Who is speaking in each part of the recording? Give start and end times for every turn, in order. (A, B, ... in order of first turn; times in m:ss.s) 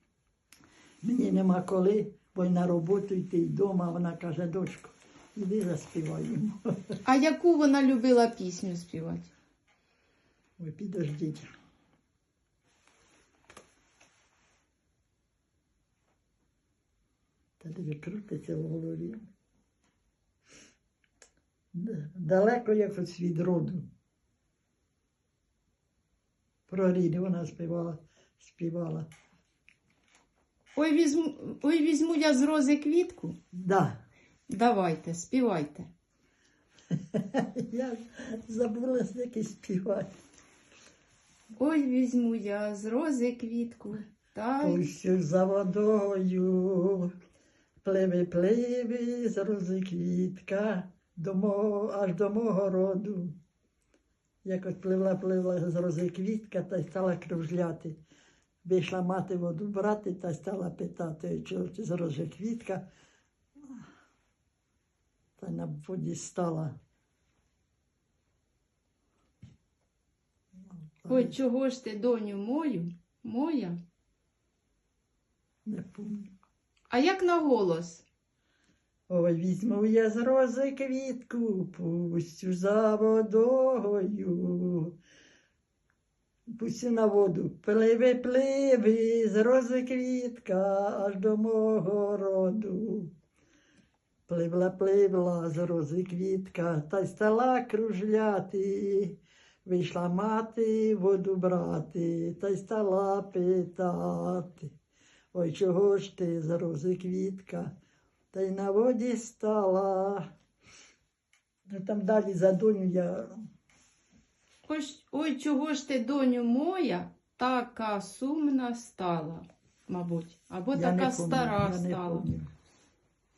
0:01.0-0:06.7 A
0:07.0-0:09.3 B
0:10.6-0:11.5 A
0:17.6-0:19.3 A
0:21.7-0:23.8 A
0:26.7-0:29.1 A
0:30.8-0:33.4 B
0:33.5-0:34.0 A
0:34.5-0:35.9 B
0:37.1-0:40.1 A
0:41.6-0:44.8 B
0:44.6-0:47.1 A
0:47.8-0:53.3 A
0:54.4-0:58.0 A
0:58.6-1:02.8 A
1:05.4-1:06.8 A
1:11.0-1:11.3 A
1:11.1-1:13.8 B
1:15.6-1:16.3 A
1:16.9-1:18.0 B
1:19.1-1:24.9 A
1:26.6-1:33.1 A
1:34.3-1:44.7 A
1:45.3-1:47.7 A
1:48.3-1:50.3 A
1:51.7-1:53.3 A
1:54.6-2:02.2 B
2:00.7-2:02.5 A